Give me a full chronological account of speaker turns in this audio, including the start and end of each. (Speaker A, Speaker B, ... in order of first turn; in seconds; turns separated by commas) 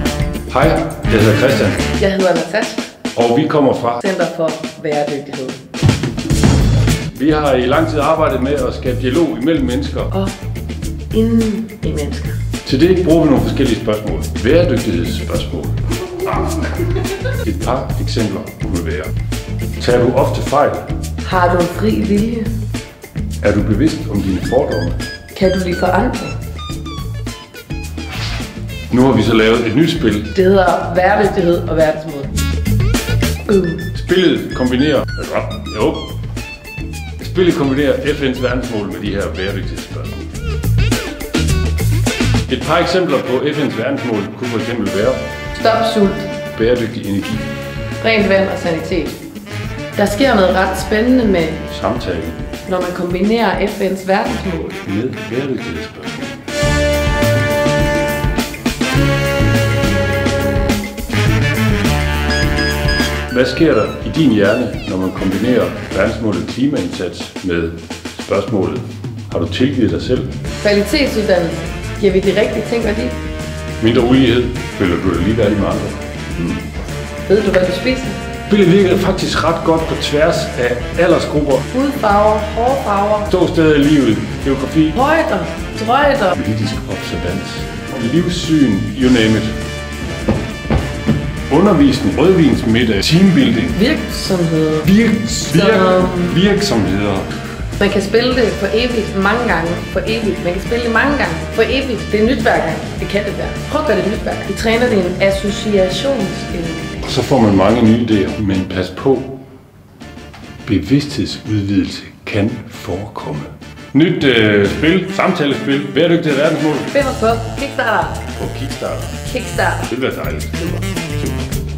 Speaker A: 0.5-1.9, Speaker B: 1.9-2.9, Speaker A: 3.1-4.0, Speaker B: 4.0-5.6, Speaker A: 7.1-10.1, Speaker B: 11.1-12.4, Speaker A: 12.7-15.8, Speaker A: 17.4-19.1, Speaker A: 19.8-20.9, Speaker B: 21.2-22.5, Speaker A: 23.4-25.0, Speaker B: 25.3-26.4, Speaker A: 28.9-30.3, Speaker B: 30.3-32.3, Speaker B: 33.5-33.9, Speaker A: 33.9-36.1, Speaker A: 37.2-40.3, Speaker A: 42.5-45.2, Speaker B: 45.5-46.3, Speaker A: 46.5-47.5, Speaker B: 48.0-49.2, Speaker B: 50.0-51.6, Speaker A: 51.7-52.5, Speaker B: 52.7-54.8, Speaker A: 54.8-56.3, Speaker A: 63.3-70.3, Speaker B: 70.6-73.2, Speaker A: 73.8-76.6, Speaker B: 77.3-78.2, Speaker A: 78.5-81.7, Speaker B: 81.7-83.3, Speaker A: 83.3-85.0, Speaker B: 84.9-86.4, Speaker A: 86.4-89.5, Speaker A: 91.5-93.8, Speaker B: 93.7-94.9, Speaker A: 94.8-97.3, Speaker B: 95.5-96.4, Speaker B: 97.8-107.0, Speaker A: 107.0-109.4, Speaker A: 110.7-116.9, Speaker B: 116.9-118.3, Speaker A: 118.4-119.2, Speaker B: 119.2-119.9, Speaker A: 119.9-121.3